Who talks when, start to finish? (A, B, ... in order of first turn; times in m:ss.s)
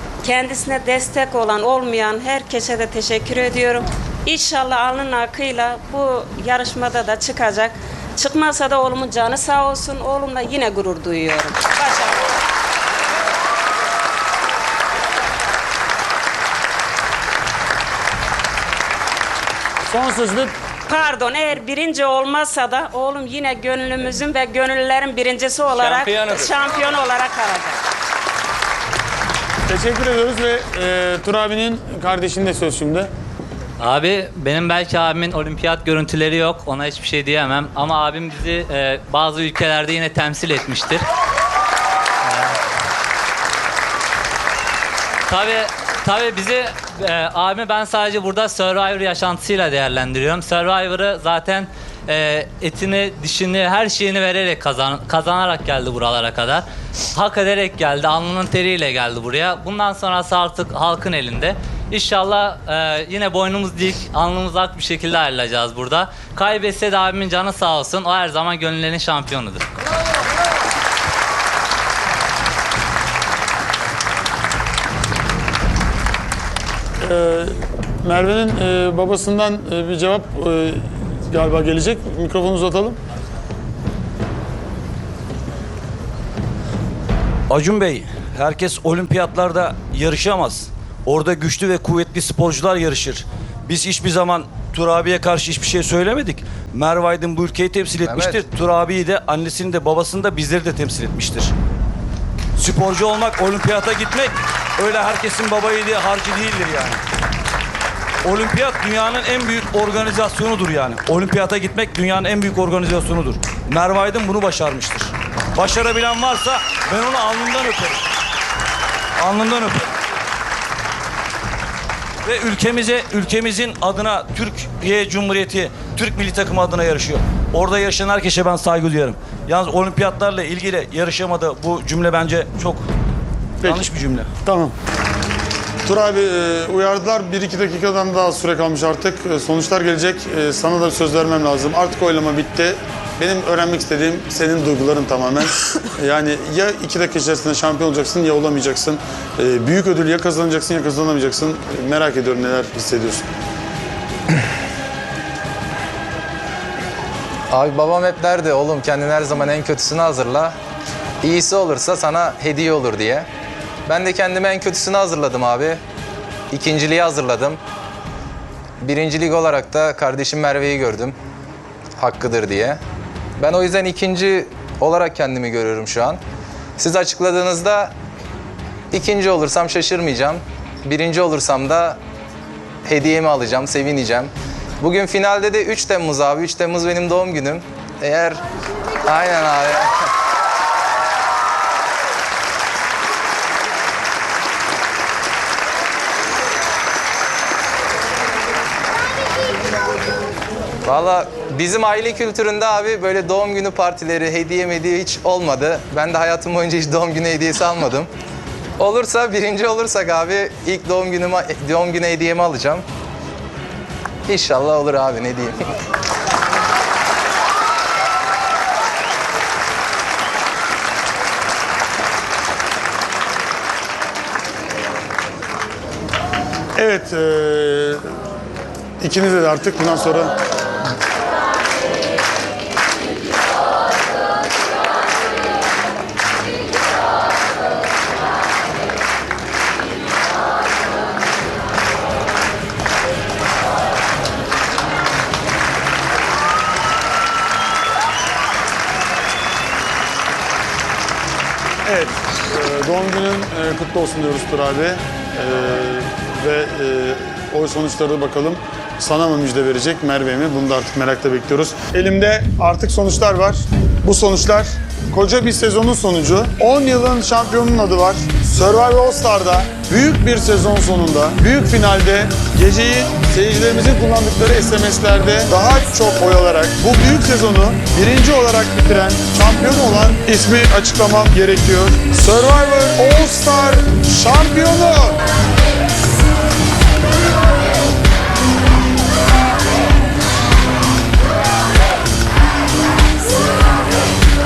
0:00.2-0:12.2 A
0:19.8-0:20.5 B
0:20.9-0:27.8 A
0:29.7-0:33.1 B
0:33.8-0:41.0 C
0:42.2-0:42.6 C
0:45.3-1:09.6 C
1:17.0-1:23.0 B
1:27.5-1:41.5 D
1:38.0-1:38.4 E
1:42.6-1:47.0 D
1:48.2-1:58.1 D
1:59.2-1:59.9 D
2:02.2-2:12.8 D
2:13.6-2:13.9 B
2:13.6-2:14.3 D
2:14.4-2:14.7 B
2:15.8-2:33.2 B
2:37.5-2:40.5 E
2:41.2-2:43.2 E
2:43.8-2:45.8 E
2:46.5-2:47.6 E
2:48.8-2:51.2 E
2:52.0-2:52.8 E
2:53.4-2:56.2 E
2:56.8-2:57.9 E
2:58.9-3:02.0 E
3:02.8-3:08.4 E
3:09.0-3:09.9 E
3:20.8-3:28.1 E
3:28.8-3:32.8 E
3:34.3-3:35.6 E
3:46.8-3:48.2 B
3:49.0-3:50.3 B
4:11.8-4:45.2 B